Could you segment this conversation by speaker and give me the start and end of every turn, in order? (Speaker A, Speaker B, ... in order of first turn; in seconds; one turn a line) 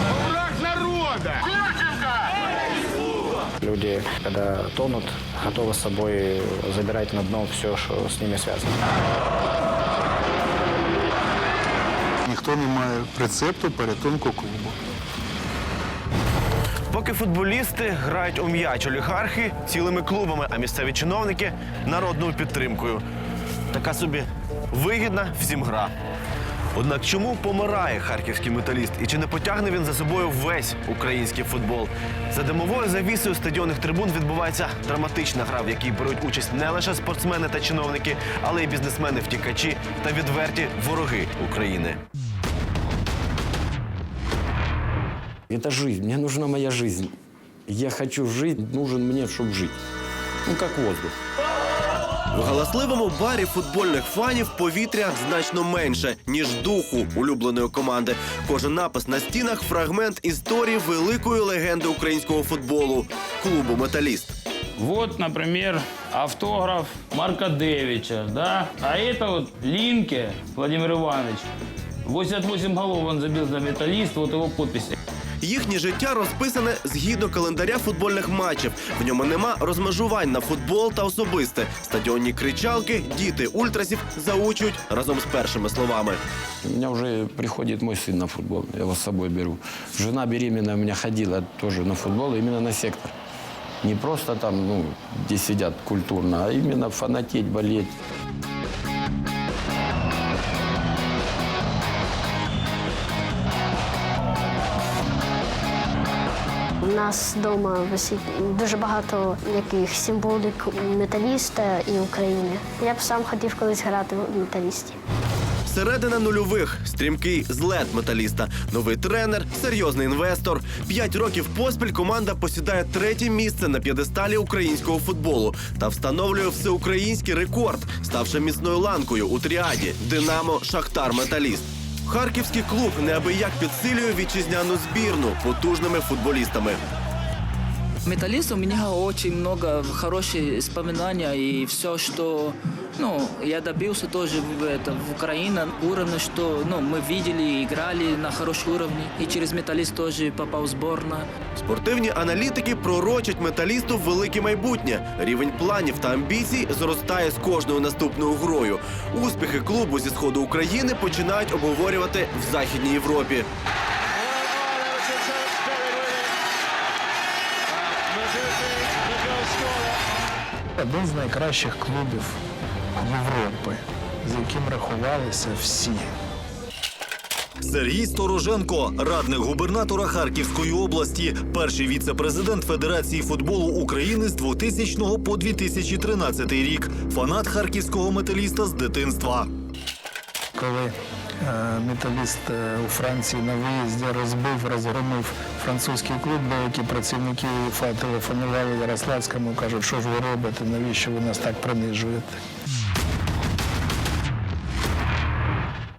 Speaker A: 3.6-8.7
Speaker B: 12.2-14.8
Speaker C: 16.9-23.0
Speaker C: 23.7-25.9
Speaker C: 26.7-42.0
Speaker D: 45.5-47.1
Speaker D: 47.7-49.8
Speaker D: 50.5-51.1
Speaker C: 52.3-64.3
Speaker E: 64.8-71.5
Speaker E: 72.0-75.0
Speaker C: 75.4-86.2
Speaker D: 86.6-93.1
Speaker D: 93.8-97.9
Speaker F: 106.8-115.0
Speaker C: 115.7-136.8
Speaker G: 138.1-151.3
Speaker C: 151.6-163.5
Speaker B: 170.8-172.4
Speaker B: 173.0-176.1
Speaker H: 177.6-189.5
Speaker B: 190.5-202.4